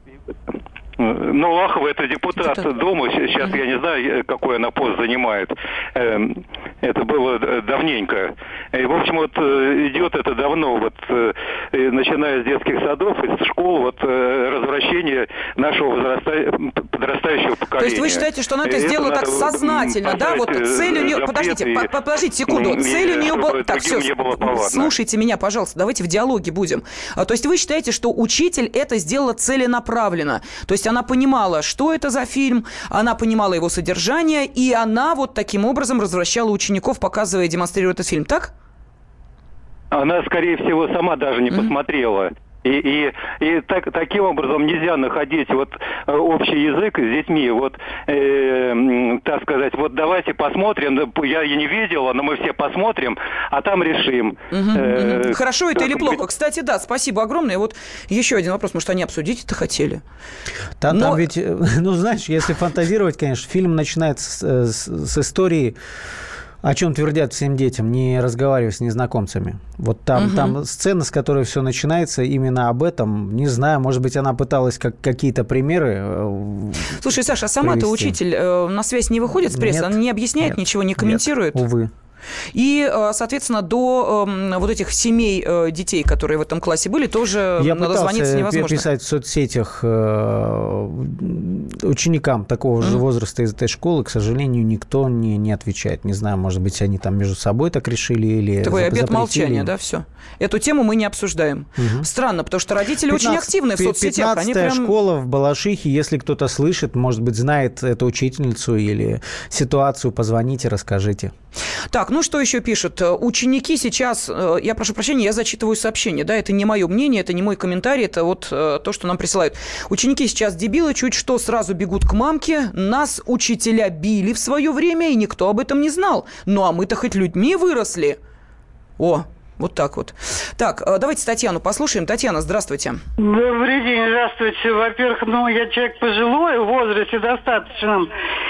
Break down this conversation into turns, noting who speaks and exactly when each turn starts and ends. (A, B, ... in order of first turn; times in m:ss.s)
0:01.0-0:21.9 A
0:02.4-0:02.7 B
0:17.8-0:38.5 B
0:22.4-0:24.9 A
0:39.9-0:56.2 A
0:54.5-1:00.0 B
1:00.8-1:05.8 C
1:00.9-1:01.2 B
1:06.6-1:18.2 C
1:10.2-1:10.6 B
1:17.0-1:21.6 B
1:19.4-1:21.9 C
1:22.5-1:28.8 B
1:27.6-1:39.7 C
1:38.6-1:44.9 B
1:41.8-1:42.1 C
1:43.0-1:51.3 C
1:51.9-2:08.2 B
2:09.0-2:13.0 B
2:13.2-2:18.1 D